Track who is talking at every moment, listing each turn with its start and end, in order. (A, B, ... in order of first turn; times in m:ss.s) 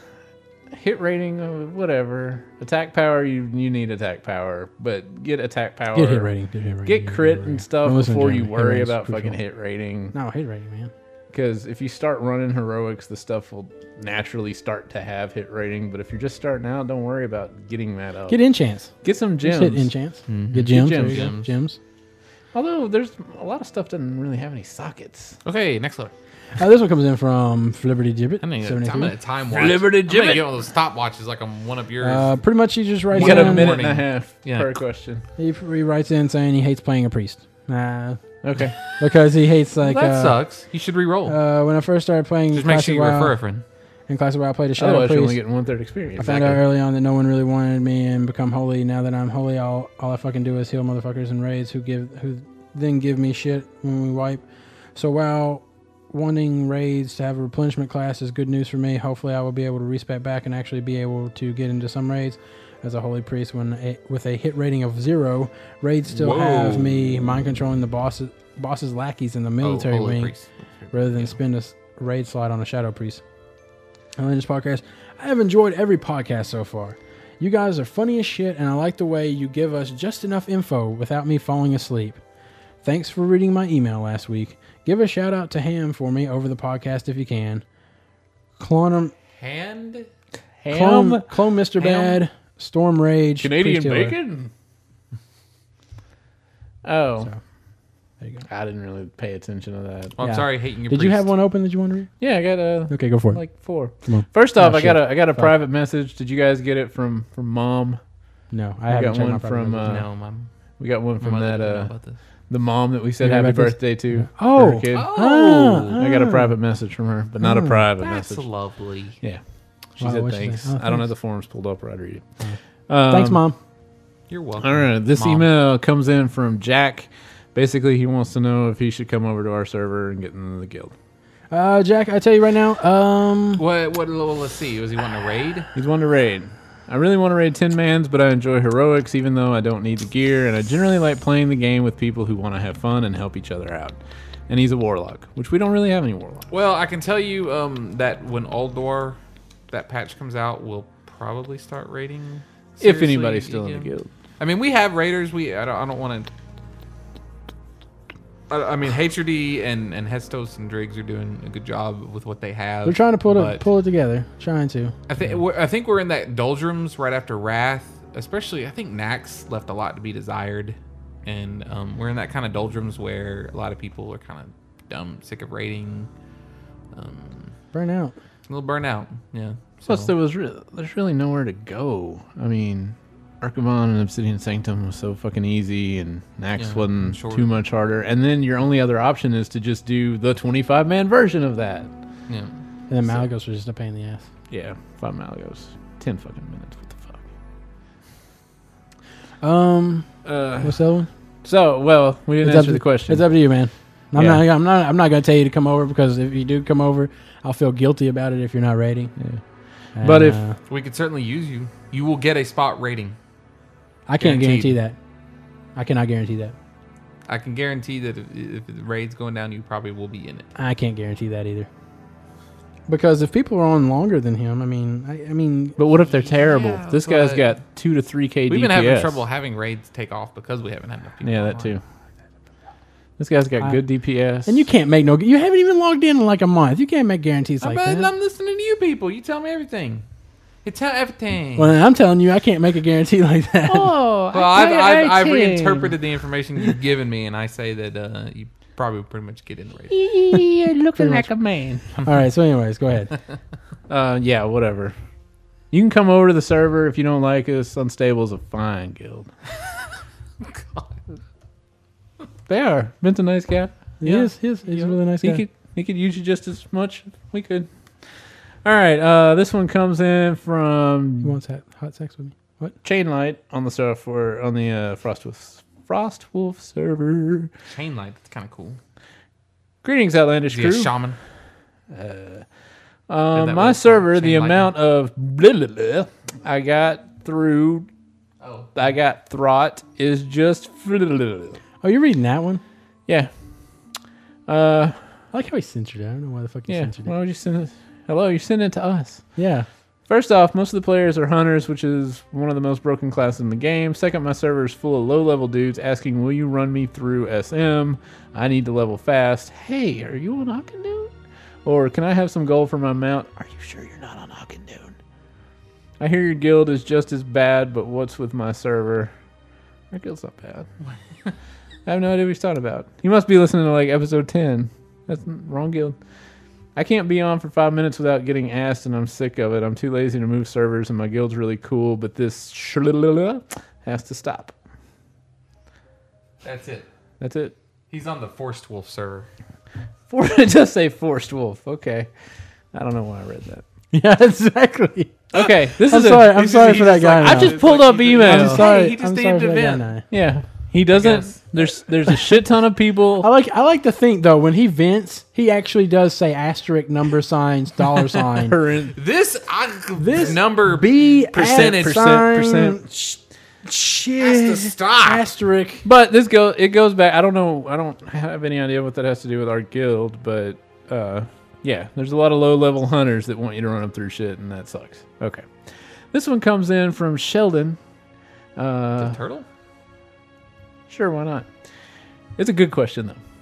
0:00.7-0:06.3 A
0:05.9-0:09.4 B
0:06.8-0:10.1 A
0:10.1-0:10.9 B
0:11.3-0:18.4 A
0:18.3-0:21.8 B
0:19.0-0:19.9 A
0:20.3-0:21.5 C
0:20.6-0:21.3 A
0:22.5-0:25.4 A
0:25.4-0:26.1 C
0:26.6-0:29.1 B
0:28.4-0:32.3 C
0:29.5-0:30.4 A
0:32.0-0:33.8 B
0:33.1-0:34.8 C
0:33.1-0:35.2 A
0:35.4-0:38.2 B
0:38.4-0:38.8 A
0:38.8-0:40.4 B
0:39.8-0:41.4 C
0:41.2-0:43.4 B
0:42.5-0:43.6 C
0:44.1-0:45.4 B
0:44.8-0:46.6 A
0:46.2-0:54.4 B
0:54.9-1:10.3 B
1:06.1-1:07.1 C
1:09.6-1:10.5 C
1:10.9-1:13.2 B
1:11.1-1:11.4 C
1:14.2-1:22.2 B
1:22.8-1:27.6 B
1:28.6-1:29.1 B
1:29.3-1:30.1 C
1:30.6-1:31.3 A
1:30.7-1:34.2 B
1:31.8-1:32.2 C
1:33.4-1:34.5 A
1:36.8-1:37.3 A
1:38.4-1:40.2 A
1:40.2-1:41.3 C
1:40.2-1:42.1 B
1:42.2-1:48.0 A
1:42.9-1:45.5 B
1:48.5-1:50.0 B
1:48.9-1:50.1 A
1:49.8-1:50.5 C
1:50.8-1:51.9 A
1:51.2-1:52.2 C
1:52.5-1:55.1 A
1:53.2-1:56.5 B
1:54.9-1:56.0 C
1:56.0-1:58.4 A
1:57.4-1:57.8 B
1:58.0-1:59.2 C
2:00.0-2:02.2 A
2:00.0-2:01.1 B
2:02.9-2:03.4 A
2:03.1-2:03.6 B
2:04.3-2:05.5 C
2:04.6-2:10.9 A
2:11.5-2:13.6 B
2:13.6-2:15.7 C
2:15.7-2:24.0 A
2:24.5-2:26.5 A
2:26.5-2:29.2 C
2:29.7-2:36.3 C
2:32.8-2:34.1 A
2:38.5-2:43.6 C
2:42.8-2:44.9 B
2:45.1-2:56.1 C
2:56.9-2:57.6 C
2:57.7-2:58.2 B
2:58.5-3:00.1 C
2:59.8-3:11.9 A
3:06.6-3:07.5 C
3:12.3-3:12.5 C
3:12.9-3:14.2 B
3:14.5-3:17.2 A
3:19.4-3:21.1 B
3:20.2-3:20.8 A
3:21.4-3:23.2 A
3:22.4-3:29.1 B
3:24.2-3:24.4 A
3:29.2-3:29.4 A
3:30.0-3:30.6 B
3:30.0-3:30.4 A
3:30.7-3:33.2 C
3:34.1-3:35.0 B
3:34.2-3:34.8 C
3:35.8-3:36.6 B
3:37.3-3:40.4 C
3:40.6-3:41.7 B
3:42.9-3:45.8 B
3:45.8-3:49.2 A
3:46.1-3:47.5 C
3:48.5-3:51.8 C
3:51.2-3:51.8 A
3:53.2-3:54.6 A
3:54.4-3:58.1 B
3:57.6-4:00.0 C
4:00.6-4:01.7 C
4:01.6-4:04.0 B
4:03.7-4:05.9 A
4:04.3-4:10.0 C
4:09.9-4:11.9 A
4:11.0-4:11.3 B
4:11.9-4:13.1 B
4:13.9-4:15.0 A
4:15.7-4:19.3 A
4:20.4-4:21.0 C
4:22.5-4:23.8 A
4:24.0-4:25.4 B
4:24.0-4:24.3 C
4:24.8-4:27.7 A
4:28.6-4:31.4 A
4:31.2-4:32.7 B
4:32.8-4:37.5 A
4:37.7-4:38.8 C
4:39.8-4:40.9 A
4:40.5-4:41.2 C
4:41.9-4:42.4 A
4:43.1-4:47.9 A
4:43.3-4:44.7 C
4:48.4-4:48.8 C
4:48.7-4:51.6 A
4:51.8-4:52.6 B
4:54.5-4:55.0 A
4:55.3-4:57.1 B
4:56.7-4:59.2 A
4:59.4-4:59.7 B
5:00.1-5:11.1 A
5:11.6-5:15.0 A
5:16.0-5:19.1 A
5:19.9-5:20.7 A
5:20.9-5:21.3 C
5:21.8-5:26.0 A
5:26.8-5:34.6 A
5:36.4-5:36.9 C
5:37.2-5:37.5 A
5:37.9-5:39.3 C
5:40.1-5:42.1 A
5:42.7-5:43.6 A
5:43.9-5:47.6 B
5:45.3-5:48.7 A
5:46.3-5:49.9 C
5:48.2-5:50.1 B
5:50.1-5:53.3 A
5:50.9-5:51.4 C
5:53.2-5:58.6 B
5:58.3-5:58.9 A
5:58.9-6:02.1 C
6:00.0-6:05.8 B
6:01.4-6:02.8 A
6:04.2-6:05.3 C
6:05.8-6:15.5 A
6:16.1-6:17.8 A
6:18.6-6:19.2 A
6:19.0-6:19.5 C
6:20.9-6:21.5 A
6:22.4-6:23.2 A